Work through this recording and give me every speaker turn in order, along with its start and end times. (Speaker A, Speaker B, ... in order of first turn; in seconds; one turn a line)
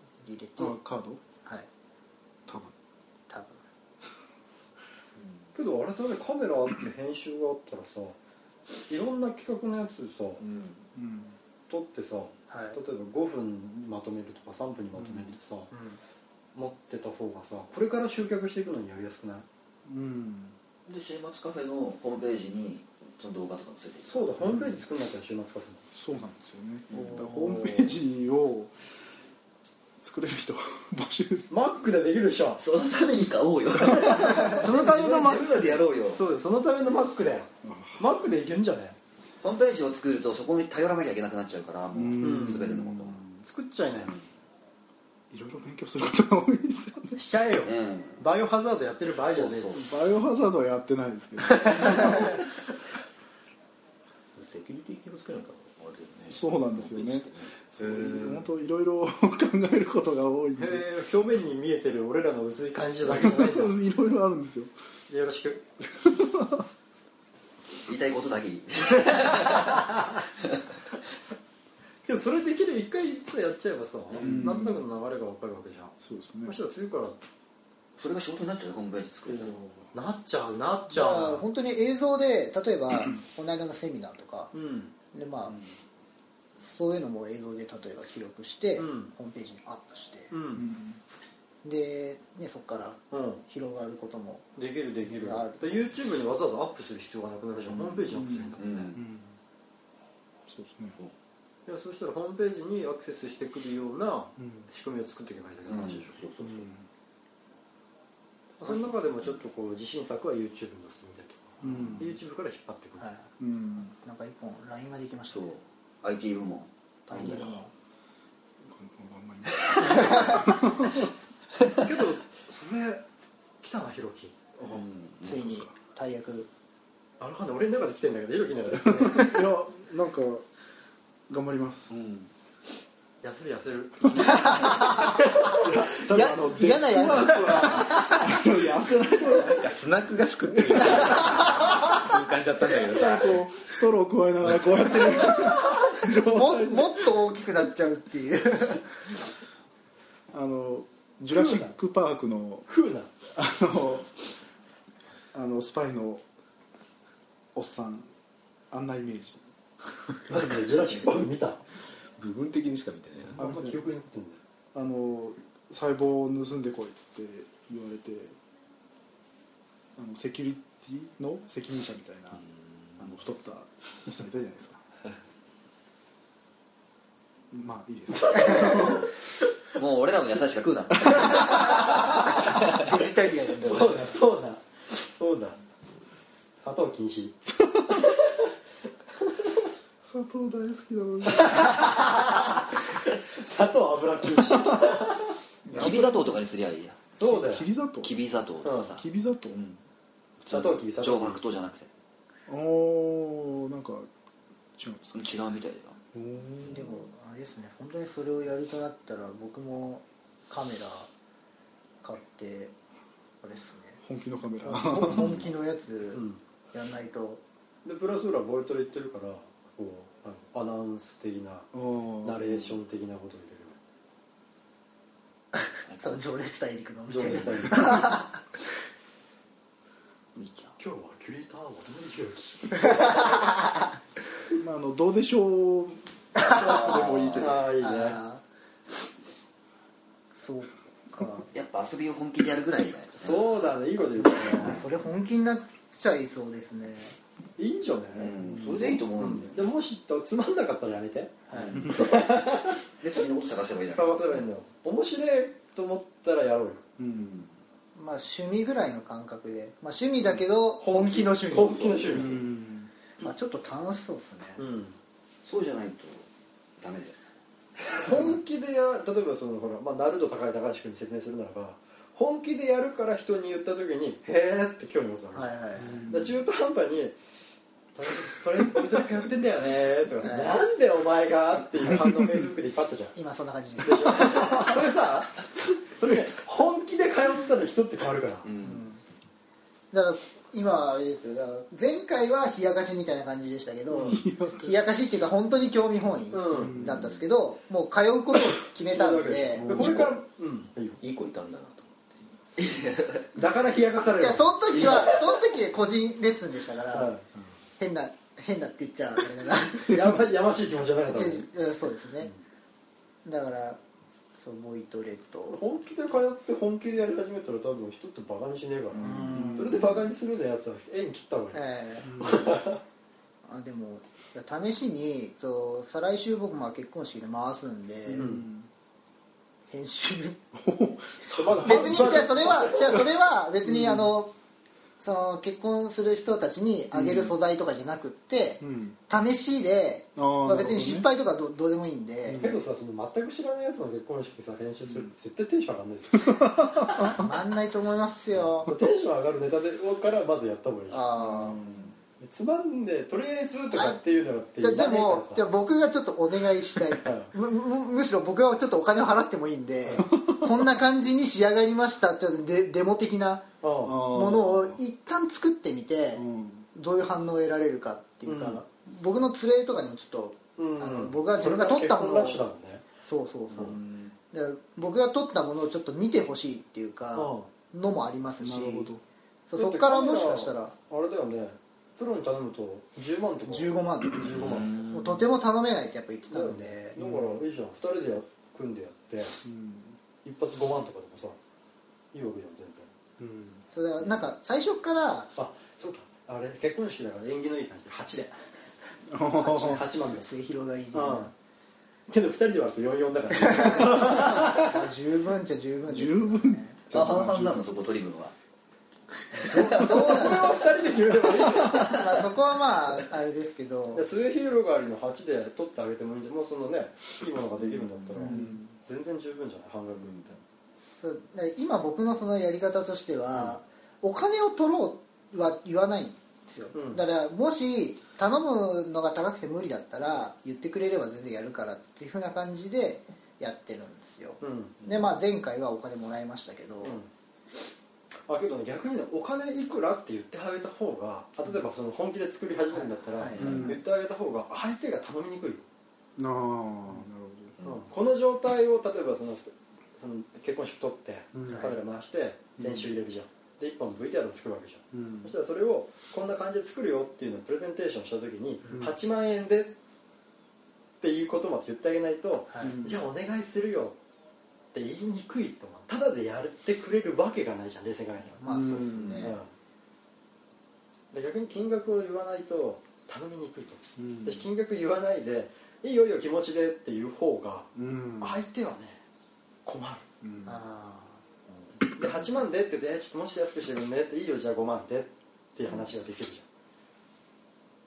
Speaker A: 0.2-0.8
Speaker B: 0.6-1.2
Speaker B: 2.5-2.7
Speaker A: 3.3-3.6
Speaker C: 5.2-5.5
Speaker D: 5.5-8.2
Speaker D: 8.9-10.4
Speaker C: 10.4-10.8
Speaker B: 10.9-11.4
Speaker D: 11.7-15.7
Speaker A: 12.5-12.8
Speaker B: 14.9-15.3
Speaker A: 15.7-16.0
Speaker D: 16.6-19.5
Speaker B: 19.9-20.6
Speaker C: 20.9-24.6
Speaker D: 24.1-25.9
Speaker B: 25.9-28.8
Speaker C: 26.9-27.3
Speaker B: 30.0-31.5
Speaker D: 31.5-32.6
Speaker C: 32.6-36.2
Speaker B: 34.0-34.5
Speaker D: 34.1-35.6
Speaker D: 36.1-39.0
Speaker B: 37.6-38.0
Speaker C: 39.4-43.2
Speaker B: 41.9-43.4
Speaker D: 42.2-42.7
Speaker D: 43.4-44.1
Speaker B: 45.3-47.2
Speaker D: 47.1-49.8
Speaker C: 47.6-48.2
Speaker C: 49.3-49.9
Speaker B: 49.8-52.4
Speaker D: 51.5-52.1
Speaker E: 54.4-57.5
Speaker B: 56.3-60.9
Speaker D: 60.6-63.8
Speaker B: 63.0-64.7
Speaker D: 65.1-65.9
Speaker B: 66.0-66.7
Speaker C: 67.8-69.9
Speaker D: 72.0-77.2
Speaker B: 74.2-74.8
Speaker B: 76.0-76.5
Speaker C: 78.0-79.6
Speaker D: 79.3-81.5
Speaker A: 80.9-84.5
Speaker D: 84.5-84.9
Speaker A: 85.1-85.6
Speaker A: 86.6-90.3
Speaker D: 88.8-89.2
Speaker D: 90.3-90.7
Speaker B: 90.5-91.0
Speaker A: 91.6-94.5
Speaker D: 93.1-93.4
Speaker D: 94.6-98.9
Speaker A: 95.0-95.9
Speaker C: 98.1-99.0
Speaker B: 98.2-99.3
Speaker B: 100.5-101.0
Speaker D: 101.7-106.3
Speaker B: 104.4-104.7
Speaker C: 105.7-106.7
Speaker B: 106.4-106.9
Speaker D: 108.6-113.2
Speaker C: 108.6-109.0
Speaker B: 111.6-112.2
Speaker A: 113.0-113.3
Speaker B: 113.4-114.0
Speaker A: 114.0-115.5
Speaker C: 115.3-117.5
Speaker A: 117.1-117.7
Speaker B: 117.1-117.7
Speaker B: 118.6-121.1
Speaker A: 120.1-120.4
Speaker D: 121.8-123.0
Speaker D: 123.6-124.4
Speaker B: 124.6-125.7
Speaker C: 124.6-125.3
Speaker A: 125.2-126.5
Speaker D: 127.2-129.4
Speaker B: 128.7-130.4
Speaker B: 131.3-131.9
Speaker D: 133.2-136.4
Speaker A: 134.2-135.3
Speaker B: 135.6-139.7
Speaker A: 136.1-138.1
Speaker D: 137.4-137.8
Speaker E: 137.8-143.3
Speaker B: 140.5-141.2
Speaker A: 141.0-141.8
Speaker B: 142.9-147.1
Speaker A: 146.0-148.9
Speaker B: 150.3-152.7
Speaker D: 151.3-151.7
Speaker D: 152.7-153.1
Speaker B: 153.3-154.1
Speaker B: 155.3-156.2
Speaker B: 157.6-158.1
Speaker B: 158.7-159.4
Speaker D: 160.3-161.6
Speaker E: 162.2-163.4
Speaker D: 163.3-164.4
Speaker B: 163.4-163.9
Speaker B: 164.7-168.4
Speaker B: 170.0-172.4
Speaker E: 172.4-173.1
Speaker B: 173.0-174.8
Speaker B: 177.5-179.1
Speaker D: 178.2-179.0
Speaker C: 178.4-179.1
Speaker C: 179.7-182.8
Speaker A: 182.5-184.0
Speaker D: 183.5-185.6
Speaker D: 186.6-188.5
Speaker B: 187.6-188.1
Speaker D: 189.2-189.7
Speaker B: 190.0-191.7
Speaker D: 191.3-195.3
Speaker B: 195.7-196.4
Speaker C: 195.7-197.0
Speaker D: 197.2-197.7
Speaker B: 197.2-198.2
Speaker C: 198.0-199.8
Speaker D: 198.6-198.9
Speaker B: 198.9-199.6
Speaker C: 200.4-201.9
Speaker D: 200.5-201.4
Speaker B: 202.5-204.1
Speaker B: 204.8-205.3
Speaker C: 205.1-206.0
Speaker B: 206.1-206.9
Speaker A: 206.7-211.1
Speaker A: 212.0-212.7
Speaker A: 213.4-214.0
Speaker B: 214.0-215.4
Speaker A: 214.7-217.4
Speaker D: 216.1-216.4
Speaker D: 217.8-223.8
Speaker B: 221.7-222.6
Speaker A: 225.6-228.4
Speaker C: 225.9-226.2
Speaker D: 227.1-228.2
Speaker C: 230.4-230.8
Speaker D: 230.8-233.5
Speaker A: 232.9-233.4
Speaker B: 234.5-237.5
Speaker A: 236.4-237.0
Speaker C: 236.4-237.6
Speaker D: 237.3-238.2
Speaker A: 237.8-238.4
Speaker A: 240.4-241.5
Speaker C: 241.5-243.6
Speaker D: 243.2-244.8
Speaker A: 244.5-247.2
Speaker D: 247.6-252.8
Speaker C: 248.1-249.6
Speaker B: 248.4-249.0
Speaker A: 251.5-251.8
Speaker C: 251.5-252.2
Speaker C: 252.9-254.4
Speaker D: 253.9-256.9
Speaker B: 257.0-257.4
Speaker C: 257.2-257.5
Speaker A: 257.9-261.9
Speaker D: 260.8-262.4
Speaker C: 261.5-262.4
Speaker B: 262.1-262.9
Speaker A: 263.2-264.6
Speaker D: 264.6-265.0
Speaker C: 265.4-266.3
Speaker C: 266.8-267.2
Speaker C: 267.8-268.2
Speaker D: 267.9-275.5
Speaker A: 275.3-276.1
Speaker B: 275.8-276.3
Speaker D: 276.1-277.2
Speaker D: 277.9-283.2
Speaker A: 280.2-280.6
Speaker A: 283.1-284.3
Speaker D: 283.8-288.5
Speaker C: 288.4-288.8
Speaker A: 288.6-289.0
Speaker A: 289.9-300.1
Speaker B: 294.0-294.8
Speaker D: 296.3-296.9
Speaker B: 296.5-297.1
Speaker D: 298.9-301.0
Speaker B: 299.6-300.0
Speaker E: 301.0-302.5
Speaker C: 302.6-303.4
Speaker D: 303.4-305.2
Speaker A: 304.1-307.1
Speaker D: 306.9-307.4
Speaker A: 307.8-310.1
Speaker D: 309.9-311.5
Speaker A: 311.1-312.3
Speaker A: 313.2-313.8
Speaker A: 314.4-315.6
Speaker D: 315.5-322.8
Speaker B: 318.9-320.0
Speaker A: 319.0-319.9
Speaker A: 321.5-322.1
Speaker B: 322.1-322.5
Speaker A: 323.4-328.4
Speaker B: 328.1-328.7
Speaker D: 328.2-328.5
Speaker A: 329.7-330.4
Speaker B: 330.6-332.4
Speaker D: 331.3-333.1
Speaker A: 331.6-334.3
Speaker B: 333.6-334.1
Speaker A: 335.0-342.5
Speaker B: 336.9-337.3
Speaker B: 338.6-339.0
Speaker B: 340.2-341.1
Speaker B: 342.3-342.6
Speaker D: 342.4-346.6
Speaker B: 346.2-347.3
Speaker A: 346.9-348.7
Speaker D: 348.6-351.1
Speaker A: 350.9-351.6
Speaker B: 351.2-351.9
Speaker D: 352.2-355.4
Speaker A: 353.7-354.0
Speaker A: 354.6-372.4
Speaker D: 356.9-357.3
Speaker B: 360.2-360.4
Speaker D: 363.6-364.1
Speaker B: 363.8-364.8
Speaker B: 366.2-366.7
Speaker D: 368.3-368.6
Speaker D: 370.6-372.9
Speaker A: 373.0-373.8
Speaker A: 374.3-378.9
Speaker D: 377.1-377.5
Speaker B: 378.4-379.0
Speaker A: 379.5-380.8
Speaker D: 379.6-384.8
Speaker A: 383.5-387.0
Speaker E: 384.4-385.1
Speaker D: 386.3-389.4
Speaker B: 387.0-387.4
Speaker B: 389.4-390.0
Speaker D: 390.2-391.4
Speaker D: 392.1-392.9
Speaker B: 393.2-393.6
Speaker A: 393.7-395.3
Speaker D: 395.4-398.6
Speaker B: 399.1-399.9
Speaker A: 399.4-401.3
Speaker D: 399.5-400.3
Speaker D: 400.9-401.3
Speaker D: 402.1-404.9
Speaker A: 403.3-406.8
Speaker B: 405.9-407.7
Speaker C: 406.9-408.3
Speaker A: 409.4-410.6
Speaker D: 409.5-412.1
Speaker A: 411.6-414.1
Speaker D: 413.9-420.4
Speaker B: 418.2-418.7
Speaker A: 418.2-418.6
Speaker A: 421.0-437.0
Speaker D: 426.7-427.0
Speaker D: 434.4-434.8
Speaker D: 436.8-437.1
Speaker D: 438.3-445.7
Speaker A: 442.7-443.8
Speaker B: 443.4-443.8
Speaker B: 446.2-447.6
Speaker C: 447.6-447.9
Speaker D: 447.6-459.8
Speaker B: 451.3-451.8
Speaker A: 451.5-451.8
Speaker B: 452.6-452.9
Speaker B: 454.9-455.3
Speaker B: 458.7-458.9
Speaker D: 461.0-464.0
Speaker B: 462.6-463.0
Speaker D: 464.7-468.4
Speaker A: 468.4-469.4
Speaker B: 468.5-469.3
Speaker D: 469.1-469.5
Speaker D: 471.1-479.0
Speaker B: 474.0-474.5
Speaker B: 477.8-478.4
Speaker D: 479.6-480.1
Speaker B: 480.2-480.6
Speaker A: 480.4-481.2
Speaker D: 481.9-486.4